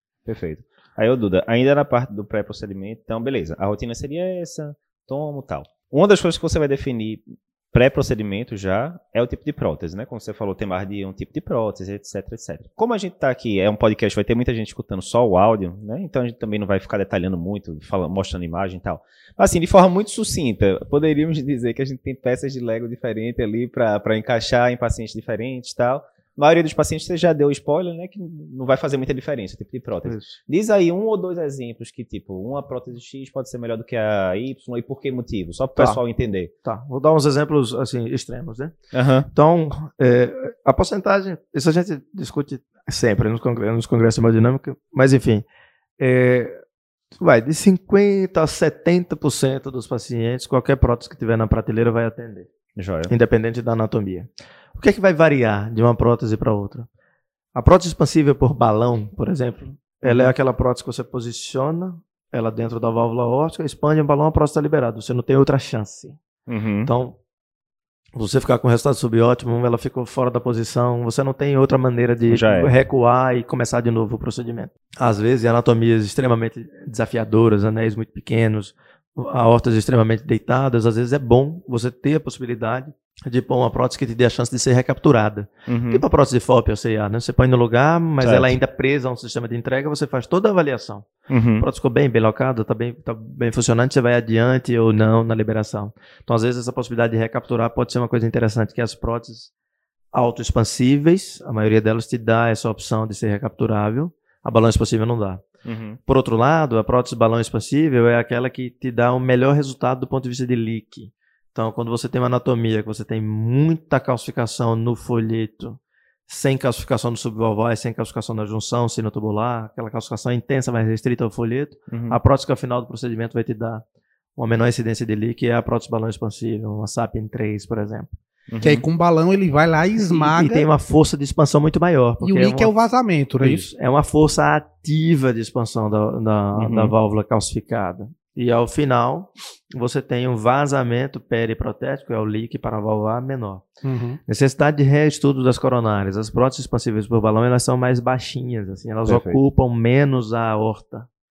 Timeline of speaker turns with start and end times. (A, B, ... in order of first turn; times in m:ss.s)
0:00.3-0:36.5 A
0:30.0-0:30.4 B
0:35.8-0:36.0 B
0:36.6-0:38.8 B
0:38.9-0:39.3 A
0:39.3-0:45.5 B
0:46.0-0:46.6 B
0:47.2-0:52.5 B
0:52.8-0:53.1 A
0:53.1-0:56.9 B
0:57.6-1:06.2 B
1:00.0-1:00.3 A
1:06.5-1:06.9 A
1:06.9-1:07.2 B
1:08.1-1:39.5 B
1:12.3-1:12.7 A
1:25.7-1:26.0 A
1:28.2-1:28.6 A
1:31.3-1:31.7 A
1:40.1-1:45.4 B
1:45.6-1:46.0 A
1:46.1-2:03.8 B
2:01.9-2:02.2 A
2:04.4-2:08.1 B
2:08.5-2:08.9 A
2:08.6-2:10.6 C
2:10.1-2:12.7 B
2:12.2-2:13.7 C
2:13.4-2:23.7 B
2:16.6-2:16.9 A
2:23.8-2:24.2 C
2:24.3-2:31.1 B
2:29.1-2:29.4 A